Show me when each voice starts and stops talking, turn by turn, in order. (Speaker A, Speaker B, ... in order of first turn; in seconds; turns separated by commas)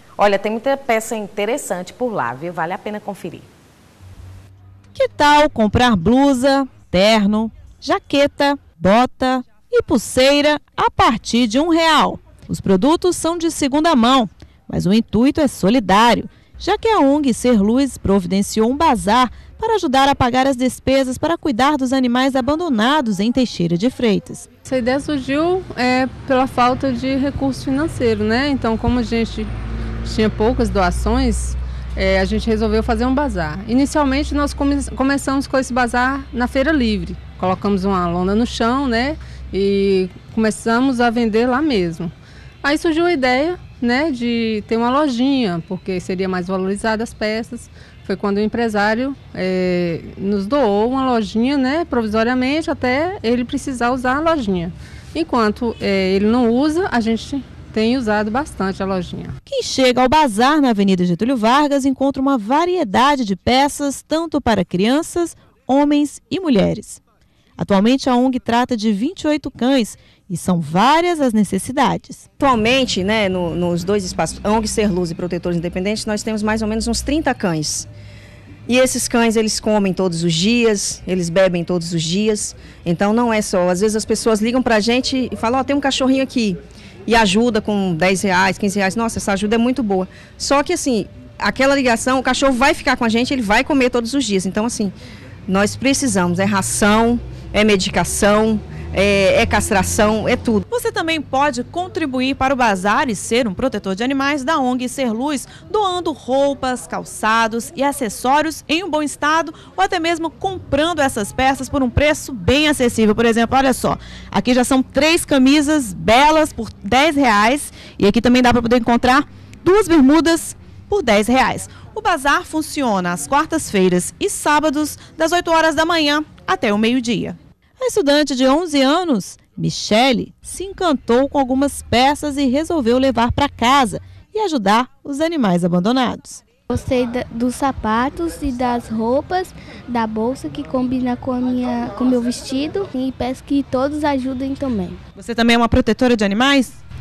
Speaker A: 0.2-3.5, Speaker B: 5.0-24.5, Speaker C: 24.6-29.5, Speaker C: 30.0-42.1, Speaker C: 42.6-59.4, Speaker B: 59.5-67.0, Speaker B: 67.6-72.3, Speaker D: 72.4-77.9, Speaker D: 78.7-94.9, Speaker D: 95.5-100.6, Speaker B: 100.7-136.4, Speaker E: 136.7-145.0, Speaker B: 145.2-146.8